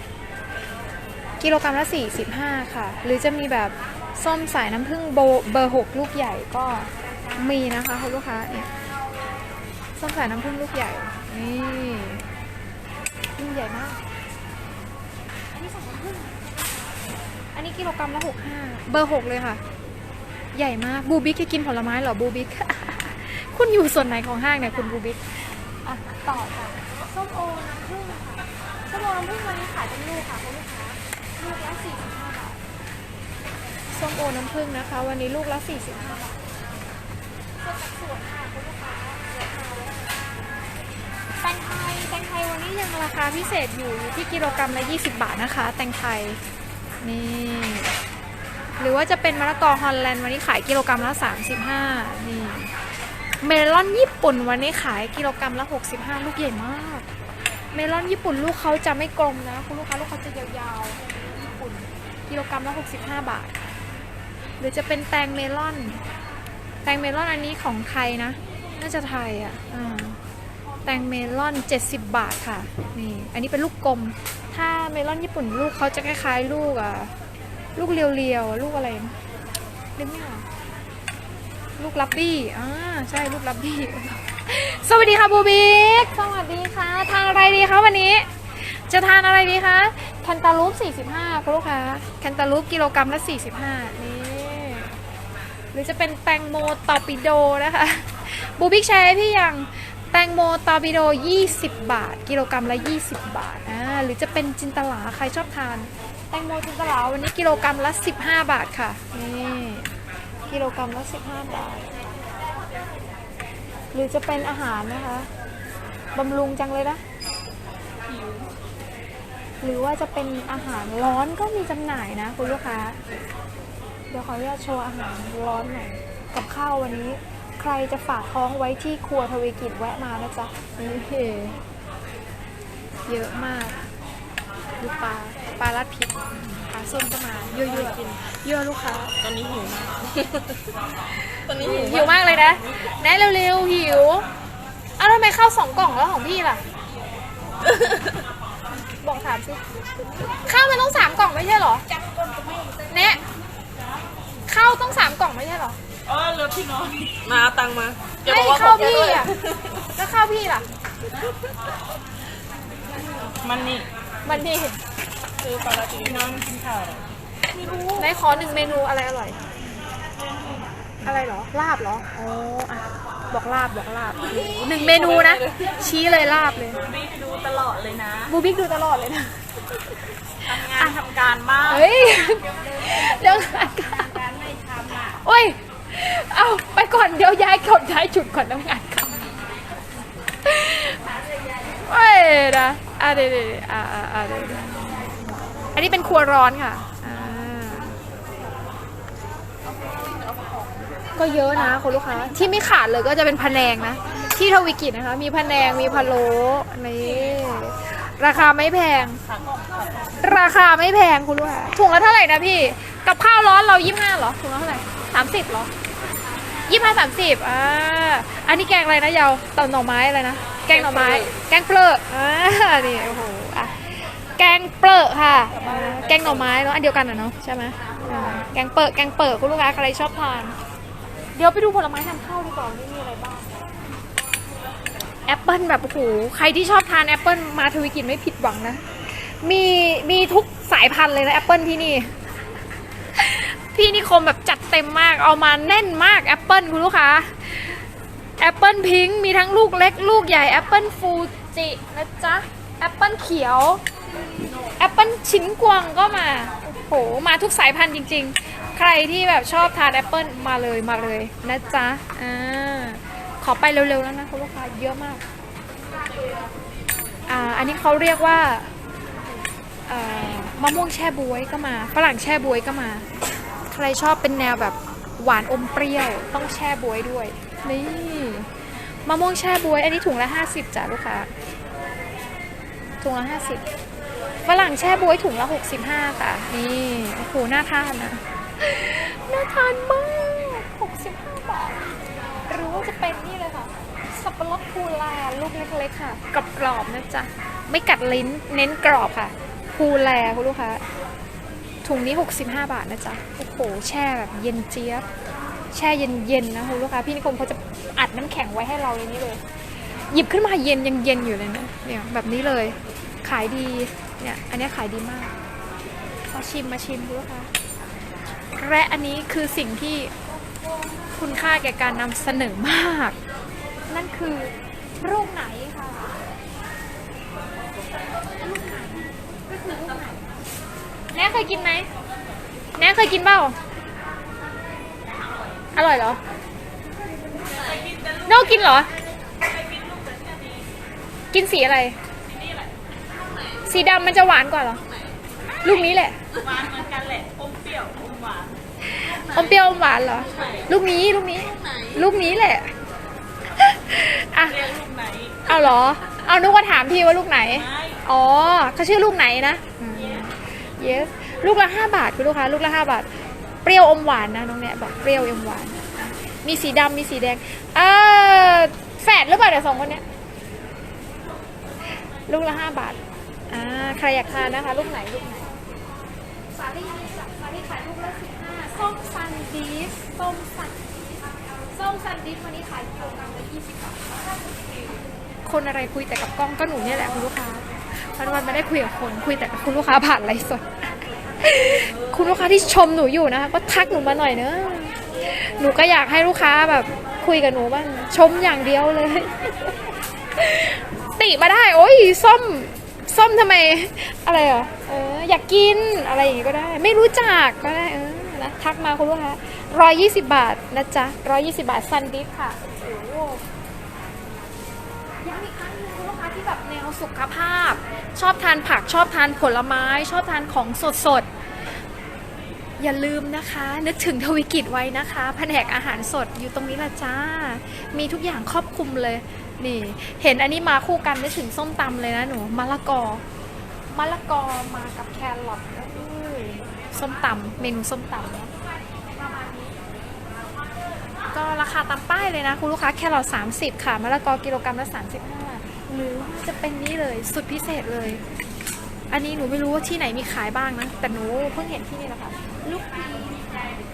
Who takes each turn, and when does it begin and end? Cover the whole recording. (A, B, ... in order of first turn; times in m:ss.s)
0:01.4-0:08.7 A
0:10.0-0:12.2 A
0:13.4-0:14.0 A
0:15.5-0:16.5 A
0:17.5-0:19.6 A
0:20.5-0:32.6 A
0:33.9-0:36.4 A
0:37.6-0:40.3 A
0:41.4-0:46.4 A
0:47.0-0:47.9 A
0:48.8-0:52.7 A
0:53.4-0:57.1 A
0:57.7-1:03.5 A
1:04.6-1:06.0 A
1:06.8-1:10.2 A
1:10.8-1:17.1 A
1:17.8-1:19.2 A
1:20.0-1:20.5 A
1:21.8-1:35.0 A
1:35.7-1:49.9 A
1:50.5-1:51.8 A
1:53.9-1:55.3 A
1:56.1-1:57.0 A
1:59.6-2:03.0 A
2:04.1-2:11.6 A
2:13.0-2:13.8 A
2:14.8-2:19.1 A
2:17.6-2:18.2 B
2:19.2-2:20.7 B
2:21.2-2:24.2 A
2:21.5-2:22.2 B
2:25.0-2:26.6 A
2:27.7-2:28.2 B
2:29.0-2:29.6 A
2:30.3-2:31.9 A
2:32.8-2:33.2 A
2:34.5-2:35.8 A
2:36.0-2:39.7 B
2:38.2-2:39.3 A
2:39.9-2:40.6 A
2:43.4-2:43.9 B
2:44.2-2:44.8 A
2:45.4-2:48.0 B
2:48.0-2:49.4 A
2:51.0-2:56.8 A
2:54.4-2:55.6 B
2:56.8-2:58.3 B
2:58.3-3:00.0 A
3:00.5-3:02.0 B
3:00.6-3:01.0 A
3:01.7-3:04.2 A
3:04.6-3:05.0 B
3:05.2-3:09.3 A
3:10.4-3:11.0 A
3:11.8-3:15.1 A
3:15.7-3:17.9 A
3:19.9-3:20.9 B
3:21.1-3:29.2 A
3:29.3-3:30.1 B
3:30.2-3:35.7 A
3:36.7-3:50.5 A
3:45.6-3:46.2 B
3:51.4-3:53.6 A
3:55.3-4:02.1 A
4:03.1-4:07.8 A
4:08.4-4:13.8 A
4:14.4-4:25.2 A
4:27.3-4:28.7 A
4:29.9-4:33.1 A
4:33.7-4:38.5 A
4:39.0-4:41.3 A
4:43.0-4:43.6 A
4:44.4-4:51.8 A
4:52.5-5:00.8 A
5:01.8-5:05.0 A
5:05.7-5:09.4 A
5:10.1-5:15.3 A
5:16.3-5:17.5 A
5:18.5-5:20.1 A
5:21.2-5:23.2 A
5:23.9-5:26.2 A
5:28.2-5:30.2 A
5:31.1-5:31.9 A
5:32.8-5:33.6 A
5:35.8-5:36.2 A
5:37.5-5:38.8 B
5:38.2-5:38.9 A
5:39.4-5:40.7 B
5:41.3-5:42.0 A
5:42.2-5:42.7 B
5:43.6-5:44.8 A
5:45.6-5:46.2 A
5:46.3-5:48.6 B
5:48.8-5:52.7 A
5:50.2-5:50.7 B
5:53.5-5:54.7 A
5:54.5-5:55.4 B
5:55.5-6:03.1 A
5:57.6-5:58.0 B
6:03.6-6:10.0 A
6:11.9-6:13.0 A
6:13.5-6:15.5 A
6:16.5-6:20.9 A
6:21.7-6:24.1 A
6:25.4-6:53.4 A
6:55.2-7:01.3 A
7:02.8-7:13.2 A
7:13.9-7:18.5 A
7:19.2-7:19.7 A
7:21.3-7:28.2 A
7:29.1-7:33.5 A